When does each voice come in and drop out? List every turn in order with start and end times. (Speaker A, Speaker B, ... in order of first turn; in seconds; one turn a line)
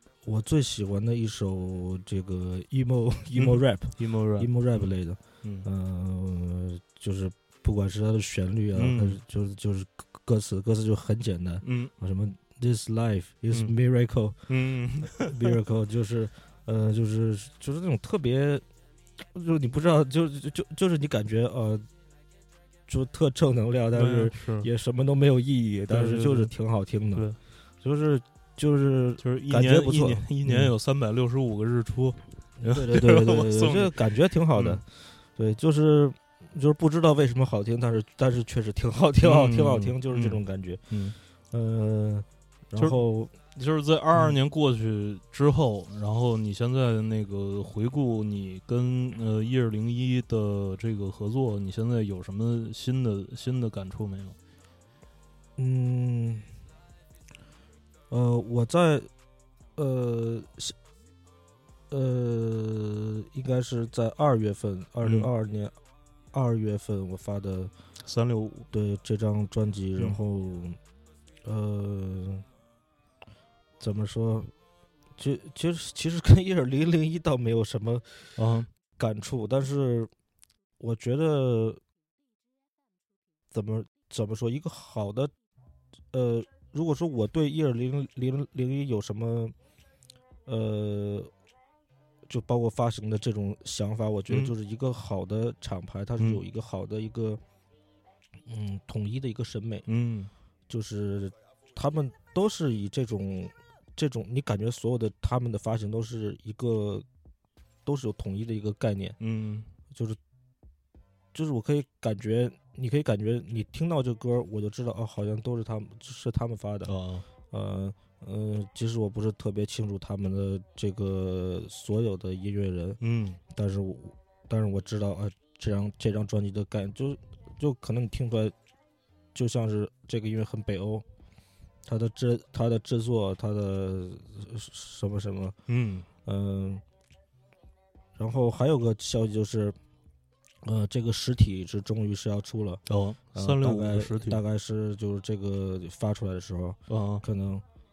Speaker A: 0.2-14.4
Speaker B: 3.4-4.9
Speaker B: 8.7-9.2
Speaker B: 11.6-11.9
Speaker B: 14.5-15.6
Speaker A: 15.1-18.6
Speaker A: 19.3-21.9
Speaker A: 22.9-27.3
Speaker B: 23.9-24.7
Speaker B: 25.9-26.5
Speaker A: 27.8-30.7
Speaker B: 29.2-34.8
Speaker A: 32.6-40.8
Speaker B: 39.2-41.1
Speaker A: 41.5-43.4
Speaker B: 43.5-54.4
Speaker A: 55.6-56.5
Speaker A: 58.1-59.1
Speaker A: 59.8-60.7
Speaker A: 61.9-65.8
Speaker B: 65.0-65.3
Speaker A: 66.3-67.7
Speaker B: 68.0-68.7
Speaker A: 68.7-70.8
Speaker A: 71.4-72.5
Speaker A: 73.8-74.5
Speaker A: 75.2-78.4
Speaker B: 78.4-78.7
Speaker A: 79.0-80.1
Speaker A: 80.8-81.8
Speaker A: 83.5-85.3
Speaker A: 86.1-89.5
Speaker A: 90.5-91.3
Speaker A: 92.3-97.4
Speaker A: 98.5-99.9
Speaker B: 99.9-100.3
Speaker A: 100.7-107.1
Speaker A: 107.8-109.2
Speaker B: 109.2-109.7
Speaker A: 109.9-110.2
Speaker A: 111.3-116.9
Speaker B: 116.9-117.2
Speaker A: 117.5-128.6
Speaker B: 123.0-123.4
Speaker A: 129.3-131.1
Speaker A: 131.9-135.6
Speaker B: 135.7-136.1
Speaker A: 136.2-136.8
Speaker A: 138.2-139.8
Speaker A: 140.6-142.8
Speaker B: 142.9-144.4
Speaker A: 143.3-147.6
Speaker B: 146.9-147.2